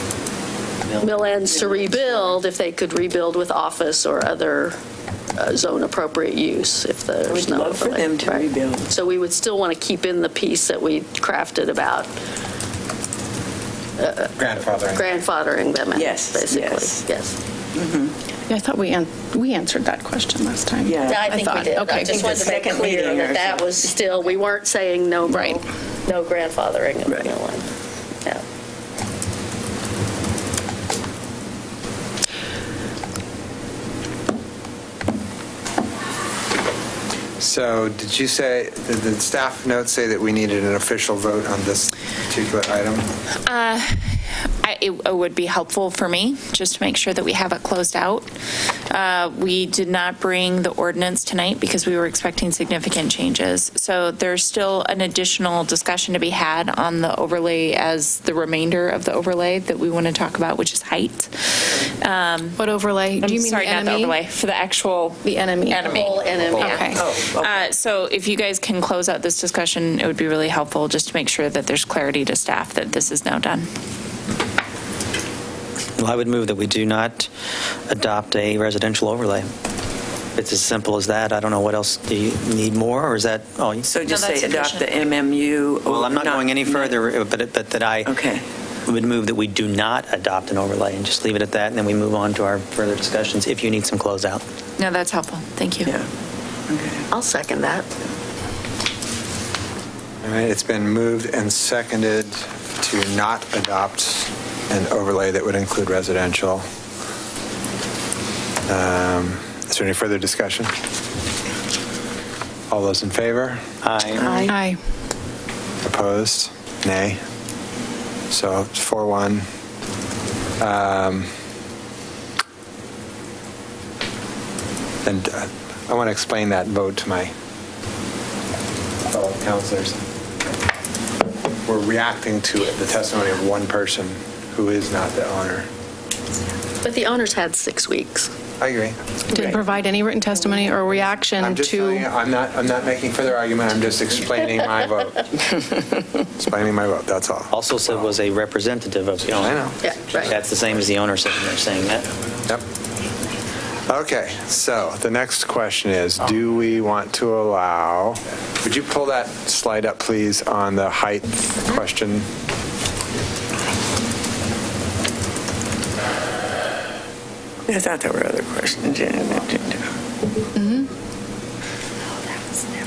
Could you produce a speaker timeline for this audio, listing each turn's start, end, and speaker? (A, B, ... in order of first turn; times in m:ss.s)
0:01.0-0:04.8 A
0:01.3-0:02.4 B
0:05.4-0:12.1 A
0:07.3-0:08.9 B
0:14.0-0:17.4 A
0:14.4-0:15.0 C
0:15.9-0:17.0 B
0:17.7-0:18.1 B
0:18.5-0:22.3 D
0:20.8-0:21.3 B
0:21.0-0:27.7 A
0:21.9-0:23.9 B
0:25.3-0:25.6 D
0:37.4-0:43.1 C
0:43.4-0:48.3 E
0:48.9-1:02.6 E
1:02.6-1:04.2 D
1:03.2-1:13.7 E
1:05.2-1:06.0 D
1:05.8-1:06.9 A
1:06.4-1:07.0 C
1:06.6-1:07.0 D
1:06.9-1:07.7 B
1:16.0-1:17.3 F
1:17.9-1:19.5 F
1:20.4-1:23.9 F
1:23.8-1:27.0 B
1:24.1-1:25.0 E
1:25.9-1:28.1 F
1:28.0-1:28.4 B
1:28.9-1:34.4 F
1:34.8-1:35.9 E
1:36.7-1:37.1 B
1:37.1-1:37.9 A
1:40.2-1:46.6 C
1:48.7-1:50.7 C
1:52.7-1:53.6 C
1:53.8-1:54.5 F
1:54.2-1:54.6 A
1:54.5-1:54.8 D
1:55.8-1:57.2 C
1:58.3-1:59.5 C
2:00.6-2:01.3 C
2:05.0-2:07.3 C
2:09.1-2:10.0 C
2:11.6-2:15.7 C
2:16.8-2:18.3 A
2:18.6-2:19.4 C
2:19.4-2:22.1 D
2:21.4-2:25.3 C
2:26.4-2:27.5 C
2:27.5-2:29.5 F
2:29.4-2:29.8 C
2:29.8-2:30.4 A
2:30.2-2:32.1 F
2:33.9-2:42.3 C
2:47.7-2:50.0 B
2:50.6-2:50.9 D